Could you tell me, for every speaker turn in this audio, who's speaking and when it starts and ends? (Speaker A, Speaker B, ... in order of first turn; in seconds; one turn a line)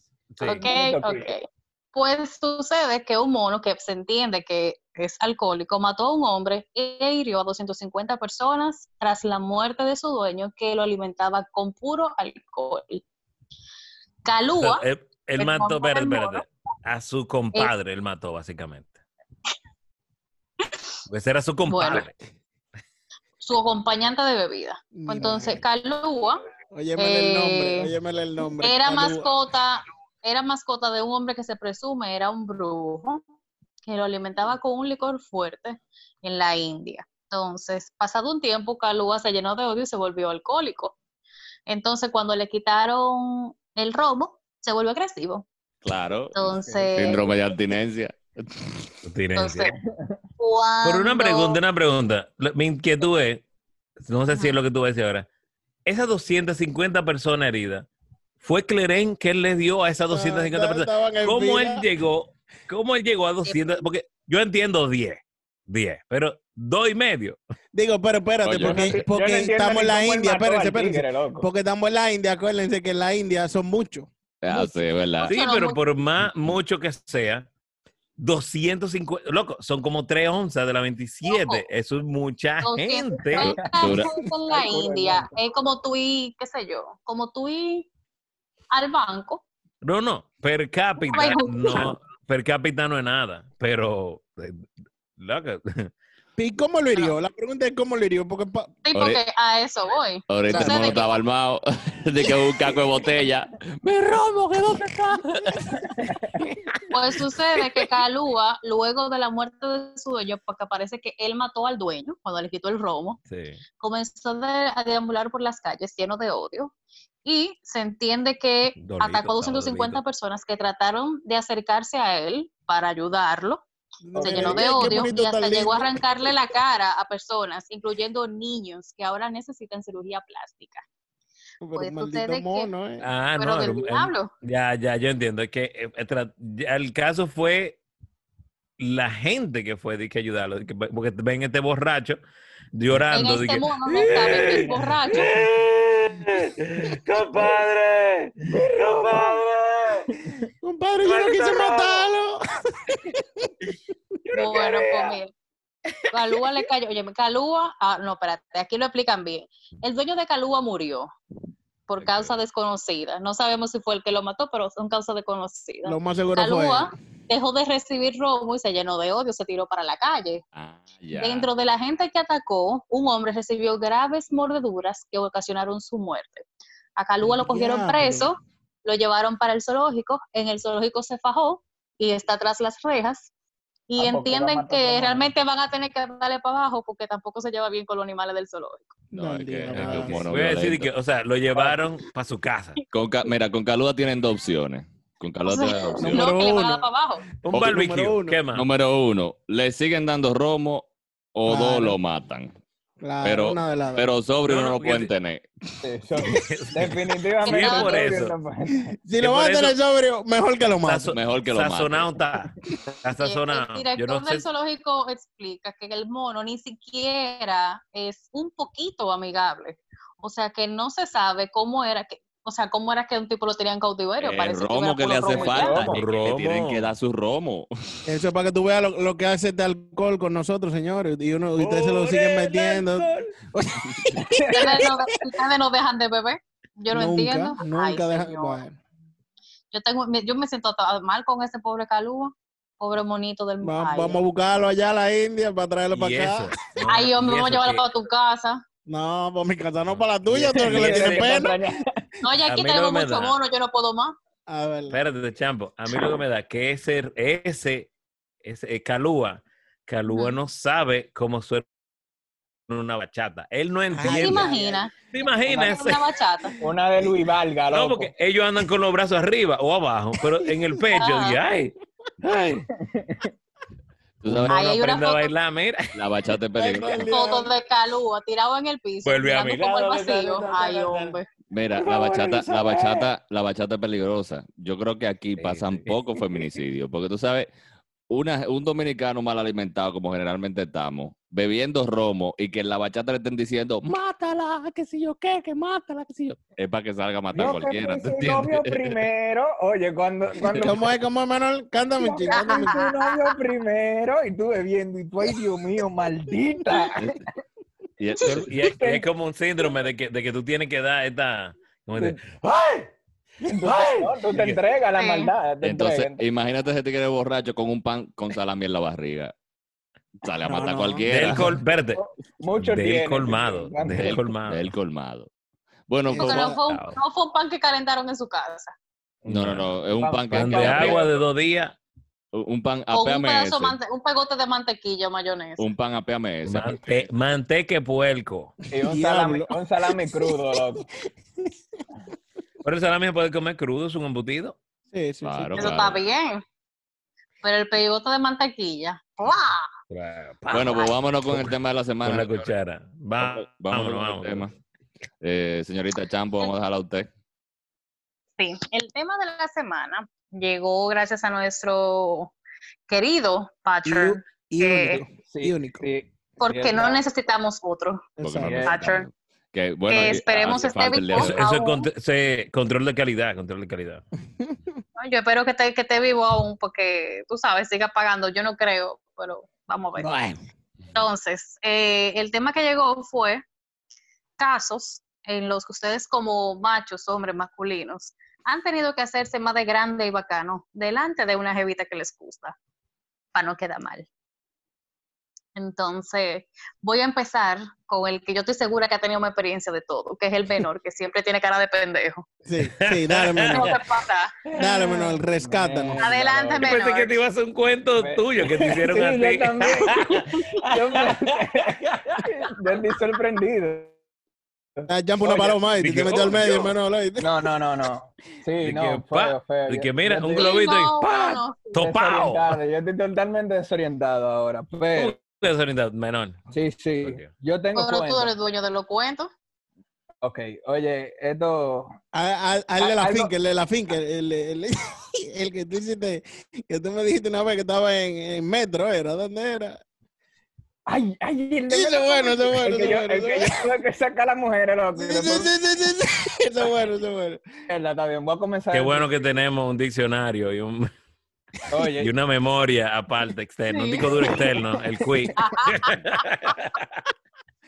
Speaker A: 0.3-0.7
Speaker B: 0.4-1.3
Speaker C: 0.4-13.0
Speaker C: 14.2-14.8
Speaker A: 14.6-19.0
Speaker C: 15.4-16.4
Speaker A: 21.1-22.1
Speaker C: 21.6-22.1
Speaker C: 23.4-26.4
Speaker D: 24.9-25.6
Speaker D: 26.7-29.3
Speaker C: 27.0-27.9
Speaker C: 28.6-33.2
Speaker C: 33.8-41.0
Speaker C: 41.7-45.5
Speaker E: 45.8-46.4
Speaker C: 46.3-47.3
Speaker B: 46.4-47.3
Speaker E: 46.9-48.8
Speaker A: 49.0-49.7
Speaker C: 49.3-49.7
Speaker C: 50.4-51.6
Speaker A: 50.8-53.4
Speaker A: 54.0-55.3
Speaker C: 54.3-54.6
Speaker A: 55.9-57.9
Speaker A: 58.4-67.4
Speaker D: 60.1-61.8
Speaker C: 63.5-63.8
Speaker D: 67.7-74.1
Speaker E: 68.4-68.8
Speaker B: 68.6-71.5
Speaker E: 74.4-75.3
Speaker C: 74.5-75.8
Speaker A: 75.3-77.5
Speaker A: 78.2-83.6
Speaker C: 81.2-81.6
Speaker C: 82.6-87.9
Speaker B: 83.5-85.4
Speaker E: 83.7-84.1
Speaker C: 88.7-89.4
Speaker A: 89.8-94.6
Speaker C: 91.1-91.9
Speaker A: 95.2-95.9
Speaker D: 96.4-98.8
Speaker C: 98.8-101.1
Speaker E: 98.9-99.2
Speaker E: 100.3-105.5
Speaker B: 106.0-106.3
Speaker C: 106.9-113.2
Speaker A: 113.3-113.6
Speaker C: 113.8-116.7
Speaker C: 117.2-123.6
Speaker A: 118.8-120.0
Speaker D: 124.0-126.0
Speaker B: 124.1-125.1
Speaker C: 124.2-130.8
Speaker D: 131.6-133.1
Speaker C: 131.7-132.7
Speaker A: 133.0-137.8
Speaker C: 133.4-134.3
Speaker A: 138.8-142.2
Speaker A: 142.7-150.1
Speaker C: 143.1-145.3
Speaker B: 149.1-149.3
Speaker D: 150.6-153.5
Speaker A: 151.0-152.1
Speaker A: 154.3-154.5
Speaker C: 154.3-155.3
Speaker B: 154.6-155.1
Speaker C: 156.1-161.1
Speaker C: 161.9-170.4
Speaker A: 162.0-162.3
Speaker D: 165.8-166.9
Speaker E: 170.5-171.5
Speaker C: 171.1-176.4
Speaker C: 177.0-183.3
Speaker D: 177.3-178.3
Speaker C: 183.9-188.9
Speaker B: 184.0-185.3
Speaker D: 189.1-190.2
Speaker E: 189.1-190.9
Speaker A: 189.7-192.8
Speaker E: 192.9-196.3
Speaker C: 195.4-197.2
Speaker D: 196.0-196.8
Speaker D: 197.4-198.4
Speaker A: 197.4-198.6
Speaker E: 198.5-202.5
Speaker D: 201.4-202.0
Speaker D: 203.0-204.1
Speaker E: 203.2-205.4
Speaker A: 204.5-205.1
Speaker B: 205.8-208.8
Speaker A: 206.4-208.3
Speaker C: 207.4-208.1
Speaker D: 208.9-211.1
Speaker A: 209.2-209.8
Speaker A: 210.8-214.4
Speaker E: 211.1-212.1
Speaker C: 213.2-225.9
Speaker E: 224.2-227.7
Speaker B: 225.2-226.0
Speaker A: 225.8-226.9
Speaker D: 228.1-234.9
Speaker A: 231.6-233.3
Speaker B: 234.2-234.7
Speaker C: 234.5-238.6
Speaker D: 236.9-238.8
Speaker C: 239.7-244.2
Speaker D: 243.6-246.5
Speaker A: 245.9-247.8
Speaker C: 246.9-248.6
Speaker D: 248.9-251.5
Speaker A: 249.9-251.5
Speaker B: 250.5-251.9
Speaker C: 252.2-254.1
Speaker A: 252.5-253.4
Speaker D: 254.5-255.0
Speaker A: 254.9-257.9
Speaker A: 258.4-261.6
Speaker C: 260.1-260.4
Speaker A: 262.7-264.5
Speaker D: 263.9-264.8
Speaker C: 264.0-266.6
Speaker B: 264.5-264.7
Speaker A: 265.1-266.0
Speaker B: 265.5-265.7
Speaker B: 266.6-268.1
Speaker A: 267.7-272.7
Speaker D: 270.4-271.0
Speaker C: 270.9-271.4
Speaker B: 272.8-273.3
Speaker E: 274.2-274.6
Speaker A: 274.5-275.9
Speaker C: 274.5-275.3
Speaker E: 275.9-277.1
Speaker D: 276.6-277.5
Speaker C: 277.1-281.2
Speaker A: 279.0-280.2
Speaker D: 279.9-281.1
Speaker E: 281.5-287.5
Speaker D: 281.8-283.1
Speaker A: 285.4-285.9
Speaker E: 288.1-293.9
Speaker D: 293.9-296.4
Speaker E: 296.6-299.0
Speaker B: 297.3-300.8
Speaker D: 300.5-302.8
Speaker B: 302.0-307.2
Speaker C: 302.3-303.3
Speaker E: 308.0-308.5
Speaker A: 308.2-312.9
Speaker B: 308.7-309.1
Speaker B: 313.4-316.2
Speaker A: 313.6-314.6
Speaker C: 315.0-315.3
Speaker E: 315.6-319.3
Speaker E: 320.2-321.5
Speaker D: 320.4-321.4
Speaker A: 321.1-322.0
Speaker B: 321.9-324.2
Speaker A: 322.6-324.7
Speaker E: 323.9-325.3
Speaker E: 325.9-326.5
Speaker D: 326.1-326.6
Speaker C: 326.2-328.7
Speaker A: 326.6-326.9
Speaker A: 329.2-329.7
Speaker E: 329.3-331.0
Speaker B: 329.9-331.2
Speaker A: 330.3-331.7
Speaker E: 332.3-333.8
Speaker C: 332.9-335.7
Speaker E: 335.6-336.8
Speaker A: 336.4-338.6
Speaker B: 338.7-340.8
Speaker D: 338.8-340.6
Speaker D: 341.4-341.8
Speaker A: 342.6-344.6
Speaker D: 344.9-345.7
Speaker E: 345.2-346.0
Speaker C: 345.6-346.4
Speaker C: 347.4-349.7
Speaker A: 349.9-354.5
Speaker E: 350.5-352.5
Speaker E: 353.2-354.5
Speaker E: 355.2-357.1
Speaker C: 358.4-362.3
Speaker C: 362.9-365.0
Speaker D: 363.8-365.9
Speaker B: 365.3-367.0
Speaker C: 366.4-368.0
Speaker D: 368.2-368.7
Speaker E: 368.2-371.4
Speaker B: 368.4-368.8
Speaker C: 368.6-369.1
Speaker C: 369.9-371.9
Speaker A: 371.1-374.0
Speaker C: 375.0-380.1
Speaker D: 380.0-380.4
Speaker C: 380.9-383.4
Speaker C: 384.4-392.5
Speaker C: 393.3-394.1
Speaker C: 395.5-402.2
Speaker D: 402.4-403.8
Speaker A: 402.8-403.8
Speaker C: 403.5-404.4
Speaker B: 404.5-406.8
Speaker D: 404.6-406.0
Speaker C: 406.0-407.1
Speaker A: 406.6-412.2
Speaker B: 408.0-413.9
Speaker B: 414.8-415.6
Speaker D: 414.9-417.3
Speaker A: 415.7-416.7
Speaker B: 417.2-420.5
Speaker A: 418.6-422.6
Speaker C: 420.4-421.8
Speaker B: 421.8-425.2
Speaker A: 424.9-426.4
Speaker B: 426.5-428.3
Speaker A: 427.0-427.3
Speaker C: 427.7-429.3
Speaker B: 430.2-431.9
Speaker D: 432.1-439.8
Speaker B: 432.8-433.3
Speaker B: 440.9-445.5
Speaker D: 441.7-443.7
Speaker D: 444.9-447.4
Speaker B: 447.7-449.1
Speaker A: 448.7-450.9
Speaker B: 451.7-452.1
Speaker A: 451.9-457.0
Speaker C: 453.7-454.1
Speaker B: 454.1-455.3
Speaker C: 455.4-456.2